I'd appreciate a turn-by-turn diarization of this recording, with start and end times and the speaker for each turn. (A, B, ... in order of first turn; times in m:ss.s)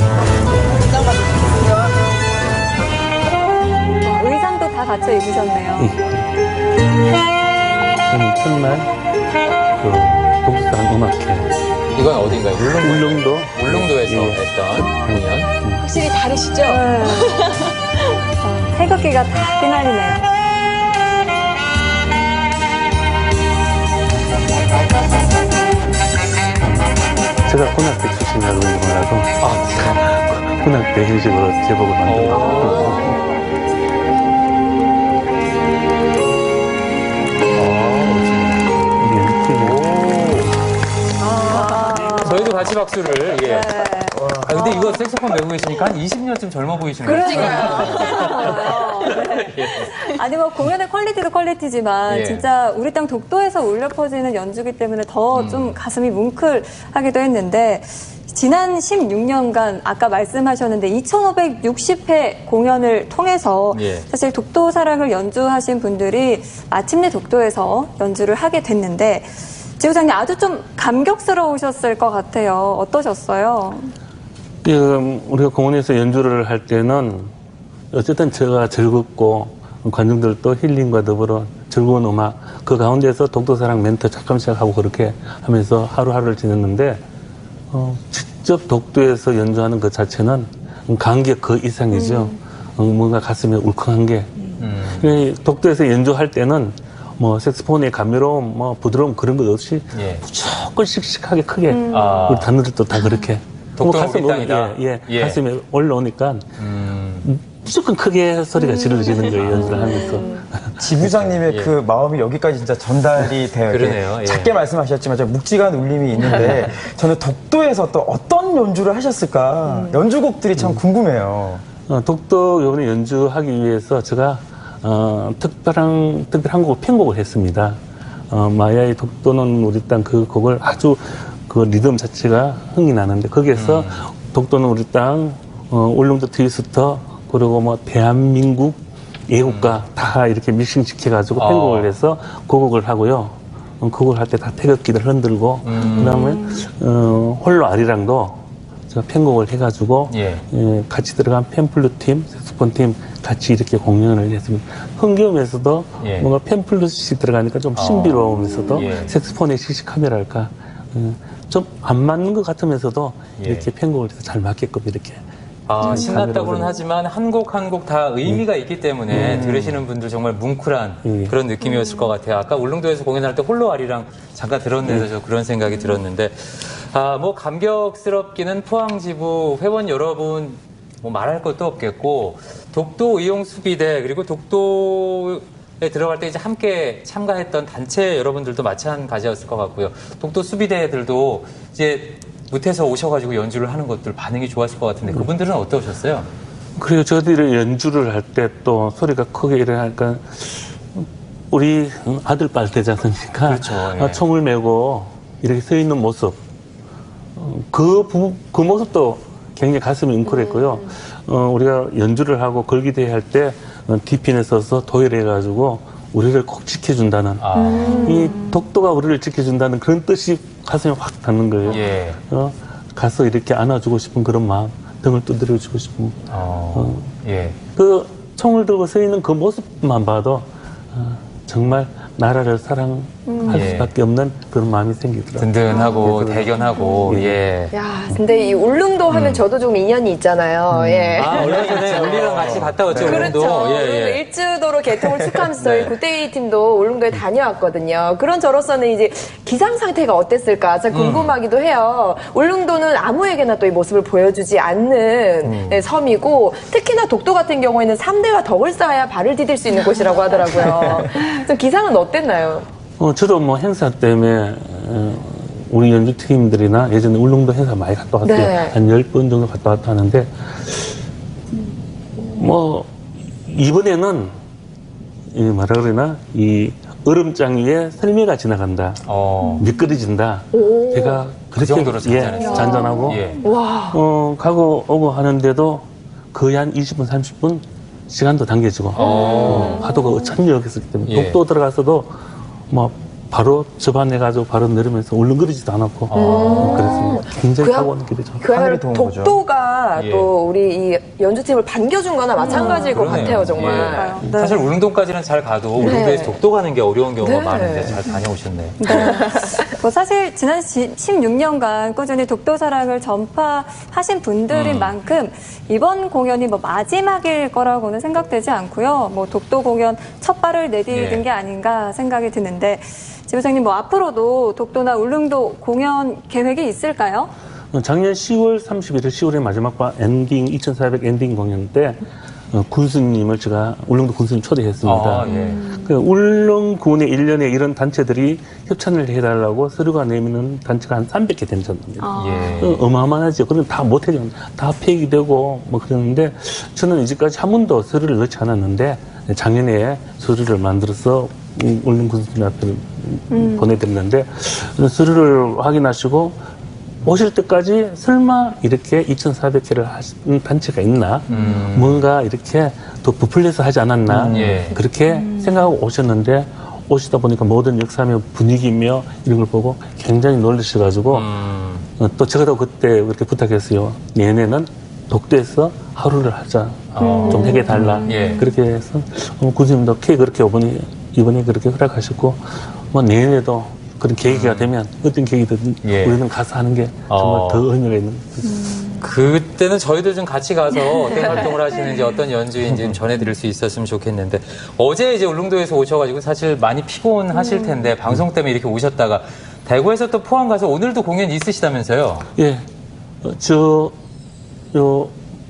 0:04.0-0:06.0 A
0:05.8-0:06.3 B
0:08.1-0:08.9 B
0:09.8-0:11.5 B
0:11.9-0:15.5 C
0:12.7-0:15.8 B
0:15.8-0:18.1 D
0:16.7-0:17.4 A
0:18.4-0:20.2 A
0:18.6-0:19.1 B
0:26.6-0:33.2 B
0:29.4-0:30.0 C
0:32.0-0:33.1 C
0:32.3-0:33.2 A
0:37.6-0:38.7 C
0:39.0-0:40.1 B
0:39.6-0:40.6 C
0:41.2-0:42.7 A
0:41.8-0:42.5 B
0:42.2-0:43.7 C
0:43.4-0:45.0 A
0:44.2-0:44.5 E
0:44.4-0:49.9 C
0:47.0-0:48.2 F
0:47.0-1:13.9 A
0:52.1-0:52.5 C
0:55.3-0:55.8 C
1:03.7-1:04.1 C
1:14.6-1:17.3 B
1:17.9-1:27.0 B
1:27.7-1:46.5 B
1:31.9-1:32.4 A
1:34.6-1:35.2 C
1:39.9-1:40.3 C
1:41.7-1:42.4 A
1:41.9-1:42.5 C
1:43.8-1:45.4 C
1:46.6-1:47.3 C
1:47.2-1:50.7 B
1:48.9-1:50.2 A
1:49.3-1:49.9 C
1:49.5-1:50.5 F
1:50.8-2:01.6 E
1:51.1-1:51.7 C
1:53.7-1:54.6 C
1:56.2-1:56.6 F
1:56.2-1:56.7 C
1:59.7-2:00.0 F
2:00.6-2:00.8 B
2:01.9-2:07.8 B
2:08.3-2:45.2 B
2:13.5-2:14.1 C
2:19.4-2:19.8 C
2:21.3-2:21.9 C
2:25.6-2:26.3 C
2:25.8-2:26.6 A
2:30.1-2:30.4 C
2:36.0-2:36.3 C
2:37.8-2:39.2 C
2:38.4-2:39.0 A
2:43.4-2:43.7 C
2:45.7-3:16.3 C
2:45.8-2:46.8 B
2:45.9-2:46.2 A
2:49.1-2:49.5 B
2:49.2-2:49.8 E
2:51.0-2:51.4 B
2:51.6-2:52.2 A
2:54.8-2:55.1 B
2:55.7-2:56.0 A
3:16.8-3:26.4 B
3:23.5-3:24.2 C
3:27.4-3:46.2 B
3:30.3-3:30.9 F
3:37.4-3:38.1 C
3:37.6-3:38.4 F
3:37.6-3:38.3 A
3:41.7-3:42.2 C
3:46.3-3:47.6 C
3:46.7-3:47.1 B
3:47.8-3:57.4 B
3:53.3-3:53.8 A
3:53.5-3:53.9 C
3:55.4-3:57.7 C
3:55.7-3:56.1 F
3:57.7-4:22.7 F
3:59.1-3:59.4 C
4:00.8-4:01.3 B
4:01.2-4:04.2 C
4:01.2-4:03.6 E
4:05.0-4:05.5 E
4:05.5-4:06.0 C
4:10.9-4:11.4 C
4:15.4-4:15.8 C
4:20.6-4:21.1 E
4:23.0-4:31.0 B
4:28.2-4:28.8 F
4:32.3-4:32.9 B
4:33.4-4:34.4 B
4:35.3-4:43.4 B
4:39.0-4:39.7 C
4:40.5-4:41.2 F
4:41.6-4:43.4 C
4:42.4-4:43.5 A
4:42.4-4:44.0 F
4:43.9-4:52.2 B
4:49.0-4:50.3 F
4:49.0-4:49.8 A
4:49.3-4:49.8 C
4:51.0-4:51.4 C
4:52.7-4:58.5 B
4:56.1-4:57.0 C
4:56.1-5:04.2 F
4:58.5-4:59.4 E
5:00.0-5:00.3 C
5:02.4-5:04.7 A
5:02.5-5:08.9 C
5:03.1-5:03.5 B
5:04.2-5:04.5 B
5:05.8-5:06.4 F
5:07.2-5:08.0 F
5:08.8-5:27.3 A
5:08.9-5:09.6 F
5:14.5-5:14.9 C
5:20.9-5:21.3 C
5:27.7-5:56.4 B
5:34.8-5:35.6 C
5:35.3-5:35.9 A
5:42.0-5:42.6 A
5:42.1-5:42.8 C
5:53.3-5:53.7 A
5:57.0-6:11.3 B
6:01.3-6:02.1 C
6:01.3-6:01.6 D
6:04.1-6:04.8 C
6:04.2-6:04.6 E
6:05.1-6:05.7 D
6:11.1-6:11.9 C
6:12.0-6:28.7 B
6:16.9-6:18.5 C
6:17.0-6:17.8 F
6:17.4-6:18.4 A
6:24.2-6:24.7 C
6:25.8-6:26.2 C
6:27.1-6:27.7 C
6:29.0-6:42.3 C
6:37.3-6:37.9 A
6:42.4-6:42.7 B
6:43.2-6:44.0 B
6:44.7-6:45.2 B